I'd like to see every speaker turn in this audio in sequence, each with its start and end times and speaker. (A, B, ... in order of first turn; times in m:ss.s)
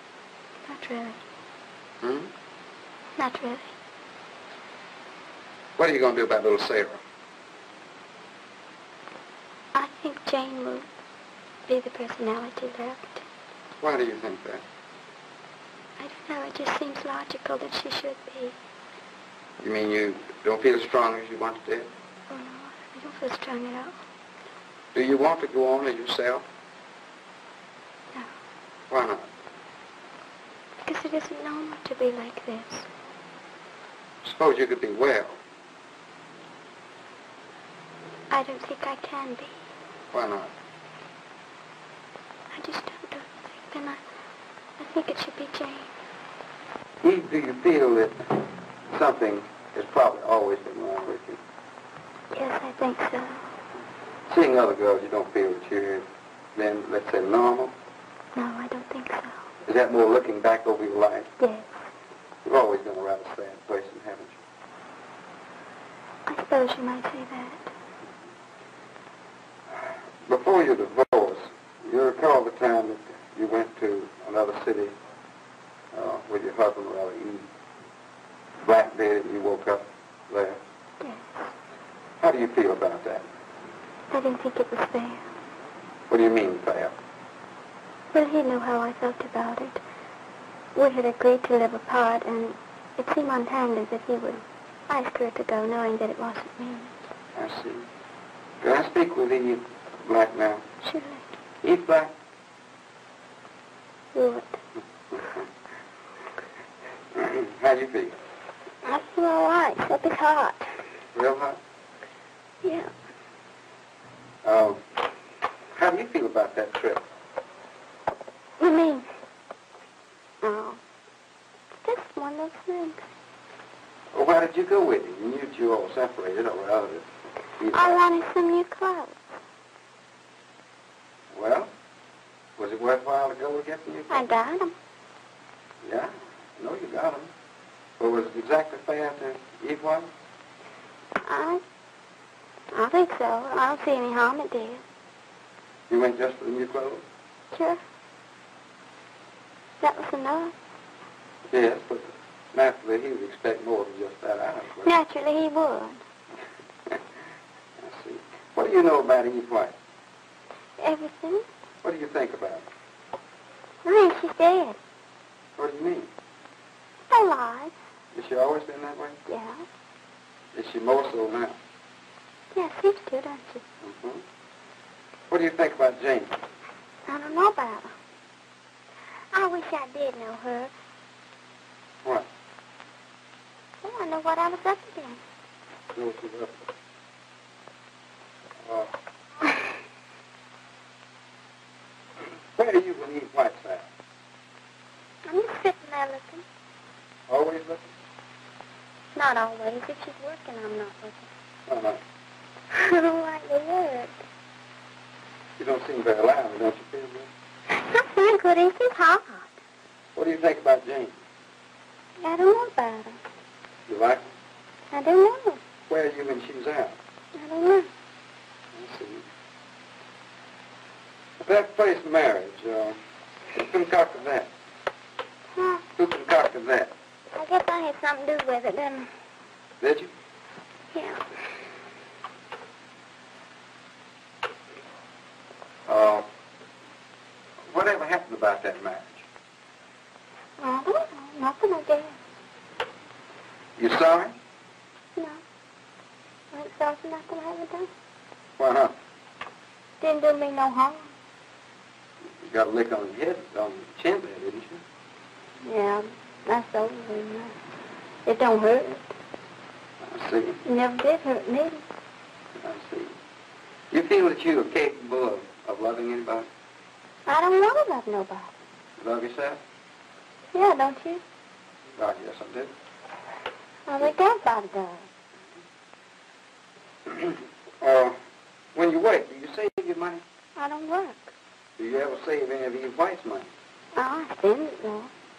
0:00.6-0:01.2 A
0:02.0-0:02.3 B
0:03.2-0:03.8 A
0:05.8-0:07.0 B
0:09.8-0:10.9 A
0:11.7-0:13.2 A
0:13.8-0:14.6 B
0:16.0-0:18.6 A
0:19.6-0:21.9 B
0:22.3-0:24.0 A
0:24.9-0:26.5 B
0:28.9-0:29.3 B
0:30.9-0:32.9 A
0:34.2-0:35.4 B
0:38.3-0:39.6 A
0:40.1-0:40.5 B
0:42.5-0:44.0 A
0:44.8-0:46.0 A
0:47.0-0:48.2 B
0:48.9-0:51.4 B
0:52.3-0:53.5 A
0:54.3-0:57.8 B
0:58.4-0:59.5 A
0:59.7-1:01.3 B
1:01.4-1:01.8 A
1:02.4-1:04.4 B
1:06.3-1:07.7 A
1:09.7-1:15.0 B
1:15.9-1:17.5 B
1:18.6-1:20.6 B
1:21.0-1:21.5 A
1:22.2-1:23.3 B
1:24.1-1:25.3 A
1:26.1-1:27.0 B
1:28.1-1:29.8 A
1:30.8-1:37.0 A
1:37.4-1:37.9 B
1:38.6-1:40.6 B
1:40.8-1:41.4 A
1:41.6-1:42.1 B
1:44.1-1:44.6 A
1:45.1-1:45.5 B
1:47.1-1:48.2 B
1:48.8-1:50.8 A
1:51.1-1:51.6 B
1:52.6-1:52.9 A
1:54.4-1:54.8 B
1:55.7-1:57.0 B
1:58.6-1:59.1 A
2:00.4-2:00.8 A
2:01.8-2:03.1 A
2:04.1-2:08.0 B
2:07.7-2:09.2 A
2:11.3-2:11.7 B
2:12.6-2:14.3 B
2:14.1-2:14.8 A
2:15.8-2:17.3 B
2:18.0-2:20.1 B
2:21.2-2:21.6 A
2:22.7-2:24.8 A
2:25.9-2:27.0 B
2:27.5-2:27.8 A
2:29.8-2:30.6 A
2:31.5-2:34.9 B
2:34.8-2:36.0 A
2:37.8-2:39.8 B
2:40.8-2:41.5 A
2:41.8-2:42.7 B
2:43.8-2:44.8 A
2:45.6-2:46.1 B
2:47.1-2:47.7 A
2:48.1-2:49.2 B
2:49.3-2:49.7 A
2:50.5-2:51.6 B
2:52.5-2:53.6 A
2:53.8-2:54.2 B
2:55.3-2:56.4 B
2:57.1-2:58.0 A
2:59.3-3:00.7 A
3:02.0-3:02.3 B
3:03.8-3:05.2 A
3:05.9-3:06.7 B
3:08.6-3:09.0 B
3:12.2-3:13.9 B
3:15.2-3:16.4 A
3:17.3-3:17.9 B
3:19.2-3:21.3 A
3:21.7-3:22.0 B
3:22.7-3:24.2 A
3:25.6-3:27.3 B
3:27.7-3:29.6 A
3:30.2-3:31.2 B
3:32.2-3:33.2 A
3:33.9-3:34.3 B
3:34.9-3:35.6 A
3:35.9-3:37.0 B
3:37.3-3:37.9 A
3:38.7-3:39.3 B
3:41.4-3:44.5 B
3:45.6-3:45.8 A
3:46.0-3:46.9 B
3:47.4-3:49.1 A
3:49.8-3:50.1 B
3:50.9-3:51.3 A
3:55.9-3:56.3 B
3:57.7-3:59.3 B
4:00.6-4:02.2 A
4:03.8-4:04.4 B
4:05.2-4:05.4 A
4:06.5-4:07.9 A
4:08.6-4:09.0 B
4:10.0-4:11.1 A
4:12.4-4:14.8 B
4:15.6-4:17.6 A
4:18.3-4:19.0 A
4:20.0-4:20.6 B
4:20.6-4:21.8 A
4:22.6-4:23.2 B
4:23.9-4:26.5 B
4:27.3-4:28.5 A
4:29.0-4:29.6 B
4:30.5-4:31.2 A
4:32.0-4:32.7 B
4:33.9-4:35.1 A
4:37.1-4:38.2 B
4:38.7-4:40.2 B
4:40.6-4:41.3 A
4:41.8-4:43.5 B
4:44.0-4:45.1 A